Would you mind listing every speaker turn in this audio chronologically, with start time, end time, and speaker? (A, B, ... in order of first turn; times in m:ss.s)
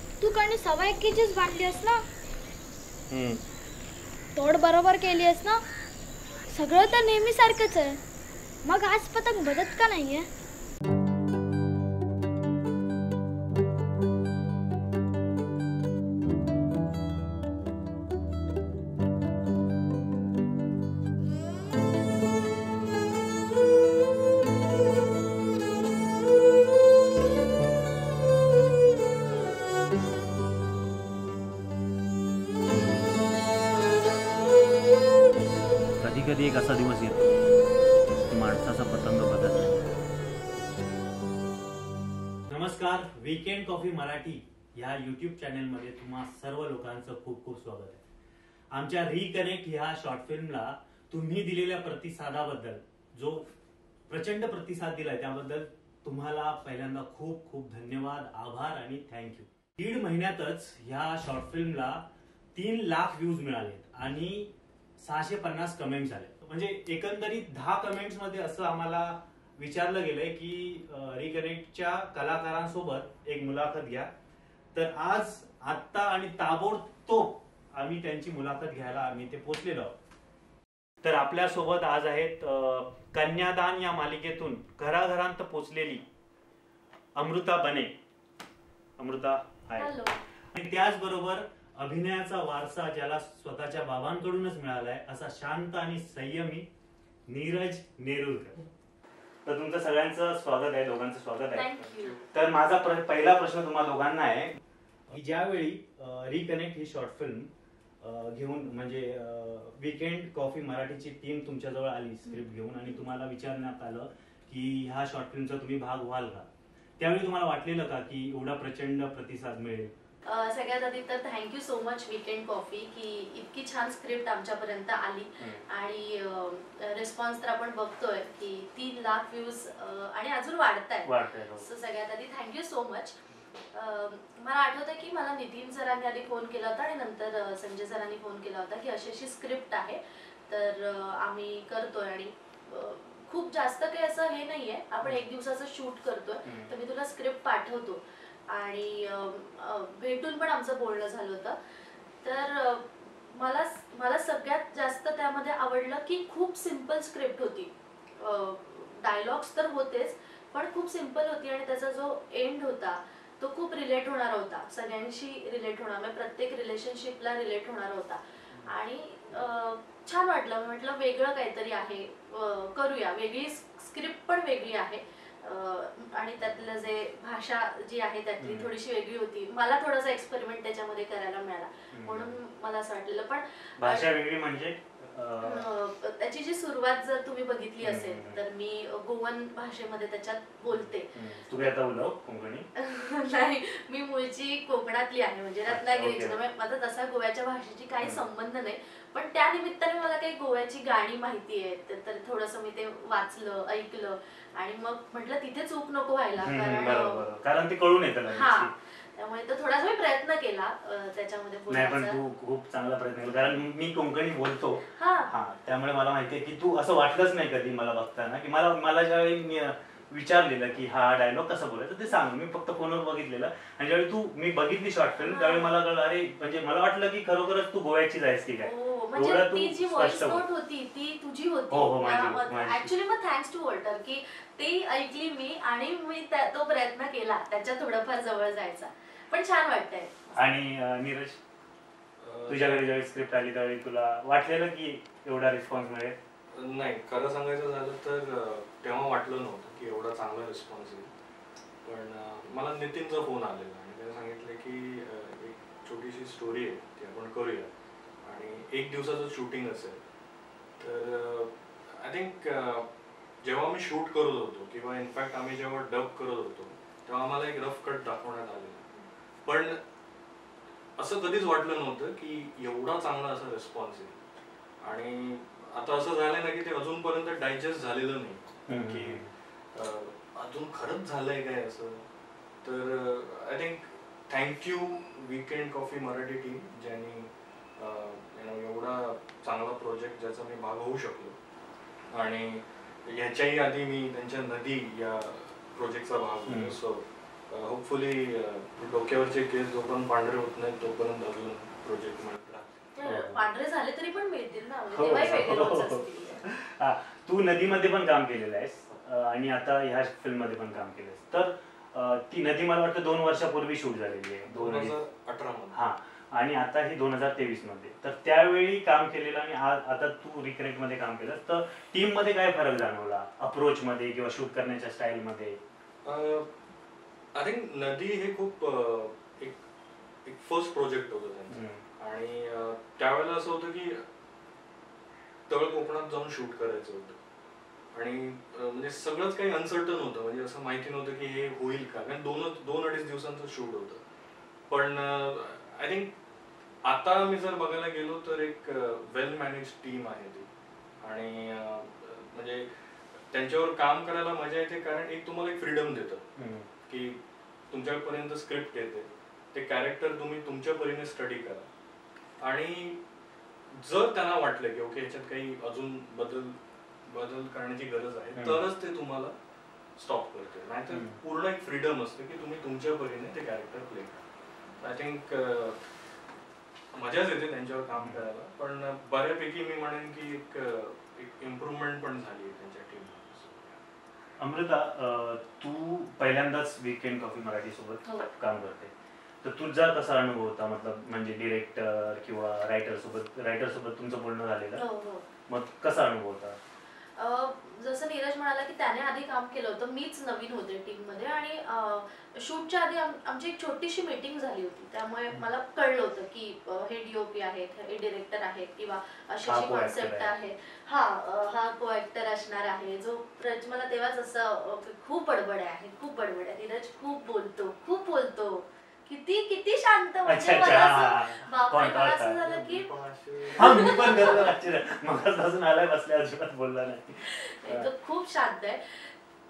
0:00.2-0:02.0 A
0:03.1-0:03.4 B
0:04.3-0:05.6 A
0:06.5-0:08.0 A
0:08.6-0:10.3 A
0:36.0-0:37.4 B
0:38.2-0:40.0 B
0:42.5-0:48.0 B
0:48.7-0:53.5 B
0:54.1-1:14.1 B
1:14.7-1:19.9 B
1:21.0-1:26.0 B
1:27.1-1:27.9 B
1:29.0-1:30.0 B
1:29.7-1:30.2 C
1:30.5-1:36.7 B
1:37.3-1:38.6 B
1:39.4-1:44.5 B
1:41.5-1:42.2 C
1:45.1-1:47.5 B
1:48.0-1:56.5 B
1:52.2-1:53.0 C
1:57.0-1:59.9 B
2:00.2-2:13.2 C
2:11.0-2:11.6 B
2:13.7-2:31.6 C
2:26.4-2:26.7 B
2:32.2-3:04.1 C
2:58.4-2:58.7 B
3:01.9-3:02.4 B
3:03.8-3:05.7 B
3:05.4-3:11.1 C
3:07.8-3:08.4 B
3:10.7-3:12.7 B
3:12.7-3:27.2 C
3:15.7-3:16.4 B
3:26.4-3:28.7 B
3:28.3-3:32.2 C
3:31.7-3:50.4 B
3:34.9-3:35.3 C
3:45.2-3:45.7 C
3:48.6-4:00.3 C
3:51.7-3:52.9 B
4:00.3-4:01.4 B
4:02.2-4:03.0 D
4:02.5-4:06.2 B
4:06.5-4:11.1 D
4:11.8-4:17.7 D
4:18.2-4:20.0 D
4:20.8-4:22.9 D
4:23.4-4:28.9 D
4:29.4-4:29.8 D
4:31.0-4:34.2 D
4:34.8-4:42.0 D
4:38.7-4:39.3 B
4:42.6-4:51.4 D
4:52.1-5:02.8 D
4:56.5-4:56.8 B
5:03.0-5:06.4 C
5:03.0-5:03.4 B
5:04.9-5:14.9 B
5:14.5-5:15.8 D
5:15.7-5:25.6 B
5:26.0-5:26.5 D
5:27.3-5:29.6 D
5:30.2-5:34.0 D
5:31.5-5:31.8 B
5:35.5-5:37.2 D
5:37.9-5:44.0 D
5:44.7-5:46.2 D
5:46.8-5:50.5 D
5:51.0-5:56.3 D
5:56.4-5:56.7 B
5:56.9-6:01.7 D
6:02.4-6:03.0 D
6:03.7-6:09.4 D
6:08.4-6:08.6 B
6:10.0-6:14.2 D
6:10.9-6:11.2 B
6:14.8-6:15.8 D
6:16.9-6:23.8 D
6:18.0-6:18.2 B
6:24.4-6:28.9 B
6:28.0-6:28.3 C
6:29.4-6:34.8 B
6:34.7-6:35.2 C
6:35.5-6:36.6 B
6:37.2-7:02.9 C
6:49.5-6:50.3 B
7:00.2-7:02.4 B
7:02.4-7:04.5 D
7:03.6-7:04.4 C
7:03.6-7:07.9 B
7:07.2-7:09.1 C